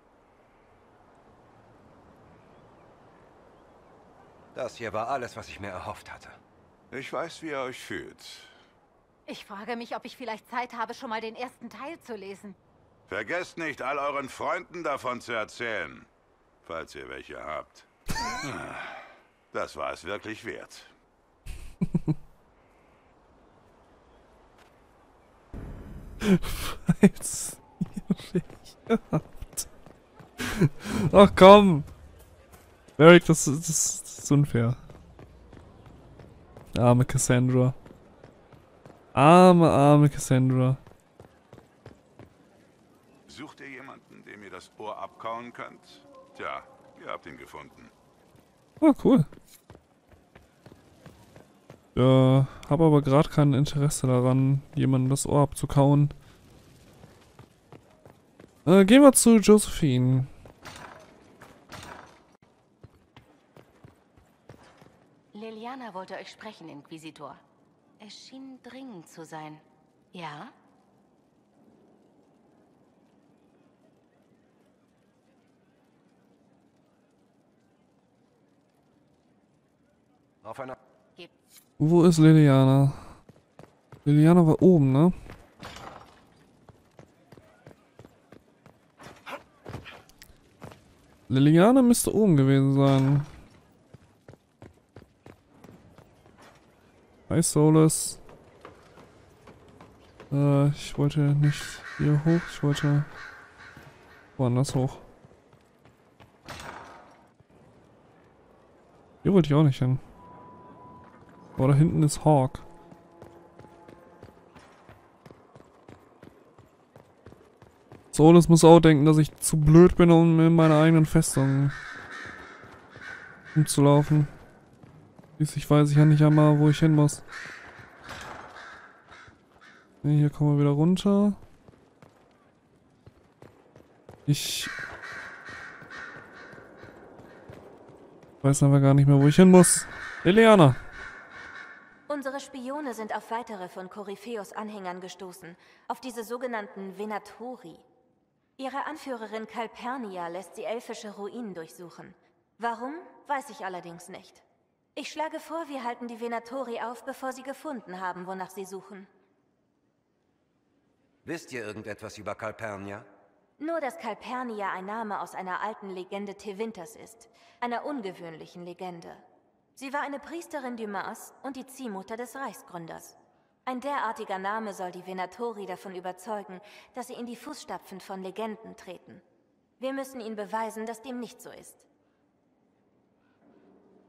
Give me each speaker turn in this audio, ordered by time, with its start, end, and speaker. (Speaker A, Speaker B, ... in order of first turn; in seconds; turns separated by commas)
Speaker A: 4.5-6.4, Speaker B: 6.9-8.5, Speaker C: 9.3-12.6, Speaker B: 13.1-16.1, Speaker B: 16.6-20.9, Speaker D: 26.2-29.7, Speaker D: 30.4-31.9, Speaker D: 33.0-34.8, Speaker D: 36.8-37.8, Speaker D: 39.1-40.8, Speaker B: 43.3-47.9, Speaker D: 48.8-49.3, Speaker D: 52.0-56.1, Speaker D: 58.7-60.3, Speaker E: 65.3-67.4, Speaker E: 68.0-70.5, Speaker A: 80.4-80.8, Speaker D: 81.8-83.1, Speaker D: 84.0-85.2, Speaker D: 91.3-93.3, Speaker D: 97.3-98.2, Speaker D: 100.3-103.1, Speaker D: 104.4-105.0, Speaker D: 109.2-110.0, Speaker D: 111.6-112.7, Speaker D: 118.1-121.8, Speaker D: 123.5-124.3, Speaker D: 125.4-127.2, Speaker D: 130.0-131.4, Speaker D: 134.3-134.7, Speaker D: 138.4-140.8, Speaker F: 142.1-147.8, Speaker F: 148.6-154.4, Speaker F: 155.0-159.1, Speaker A: 161.2-163.1, Speaker F: 163.6-169.2, Speaker F: 169.8-179.2, Speaker F: 179.8-181.9